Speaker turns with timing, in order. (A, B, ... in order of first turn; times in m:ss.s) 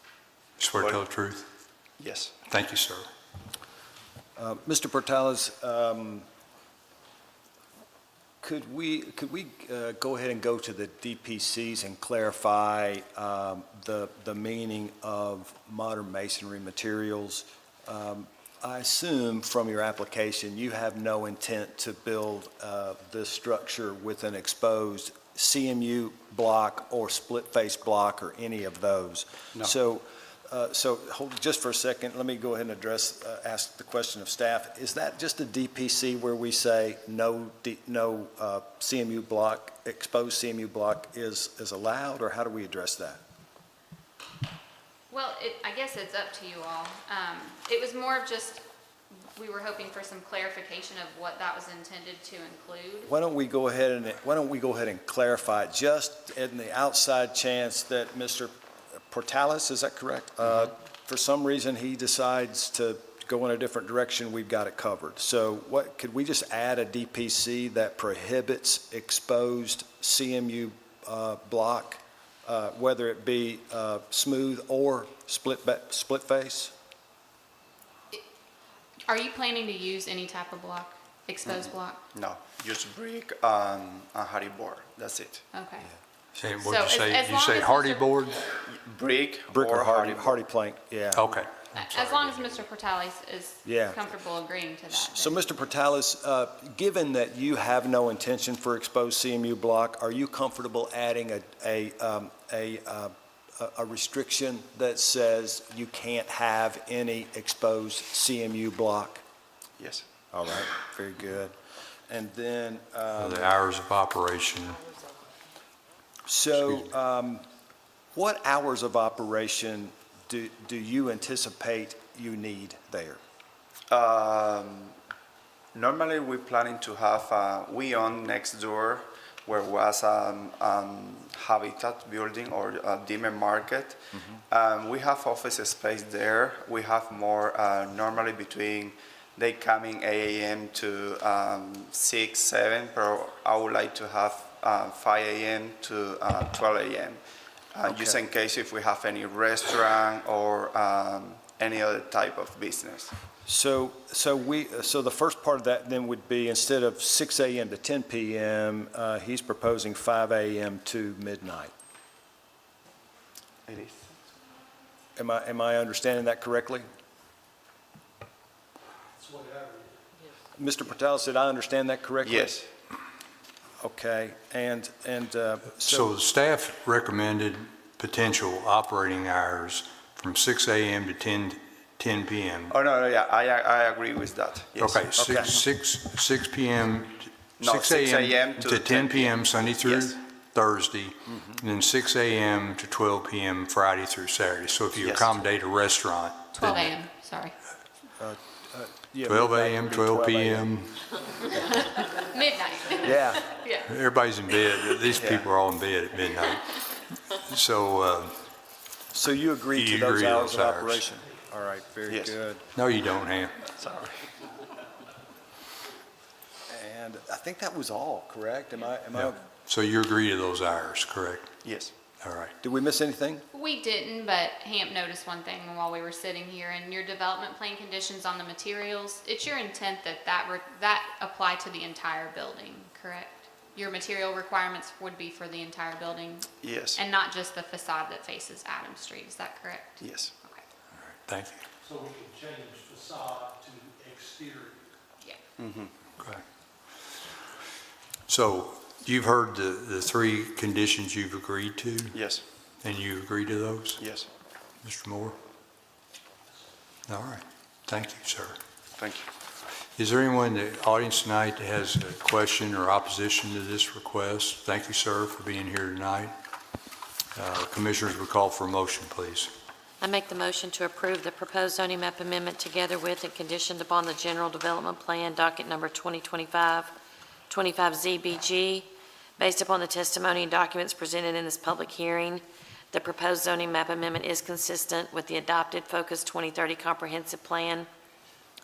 0:00.6-0:01.5 A
0:02.0-0:02.3 B
0:02.5-0:03.1 A
0:04.4-0:06.3 C
0:08.4-0:43.2 C
0:45.1-0:48.6 D
0:49.3-0:53.1 D
0:53.1-1:16.7 C
1:19.1-1:22.0 D
1:21.4-1:25.4 B
1:25.5-1:25.9 D
1:26.4-1:28.5 A
1:26.5-1:28.2 D
1:28.6-1:30.3 B
1:29.5-1:31.4 C
1:31.2-1:32.4 A
1:31.7-1:35.4 D
1:33.6-1:34.1 C
1:34.9-1:49.2 C
1:49.8-1:50.1 B
1:50.3-1:51.5 C
1:52.1-1:53.6 C
1:53.2-1:54.8 A
1:56.2-1:57.4 C
1:56.6-1:56.8 A
1:58.1-2:03.2 C
2:03.9-2:04.9 B
2:05.7-2:27.2 B
2:27.7-2:33.1 B
2:27.8-2:28.2 C
2:33.4-2:41.7 C
2:43.7-2:44.2 B
2:45.2-2:46.8 C
2:49.2-2:49.8 E
2:50.6-2:52.6 C
2:52.2-2:52.7 B
2:53.8-2:56.1 C
2:55.8-3:02.7 A
3:02.7-3:05.6 B
3:04.8-3:16.8 A
3:07.6-3:10.2 B
3:15.0-3:15.3 B
3:16.5-3:17.5 D
3:18.2-3:20.8 C
3:19.2-3:21.0 A
3:21.5-3:23.9 D
3:23.0-3:23.6 C
3:23.8-3:28.4 A
3:25.2-3:25.5 C
3:29.1-3:32.6 C
3:29.7-3:31.0 A
3:32.1-3:32.4 B
3:32.7-3:33.6 A
3:33.8-3:34.2 B
3:36.7-3:39.4 C
3:39.1-3:41.5 A
3:41.6-3:41.9 B
3:42.2-3:42.5 A
3:42.6-3:43.4 C
3:43.5-4:00.6 D
3:56.6-3:57.0 B
4:00.0-4:00.3 B
4:01.1-4:01.6 A
4:01.9-4:04.8 E
4:05.6-4:05.9 B
4:08.3-4:12.2 A
4:12.1-4:12.4 B
4:12.8-4:14.0 A
4:14.0-4:14.3 B
4:14.8-4:15.4 A
4:17.1-4:18.6 A
4:19.0-4:19.2 B
4:20.0-4:26.4 A
4:27.3-4:29.5 A
4:30.0-4:36.9 F
4:37.5-4:47.9 F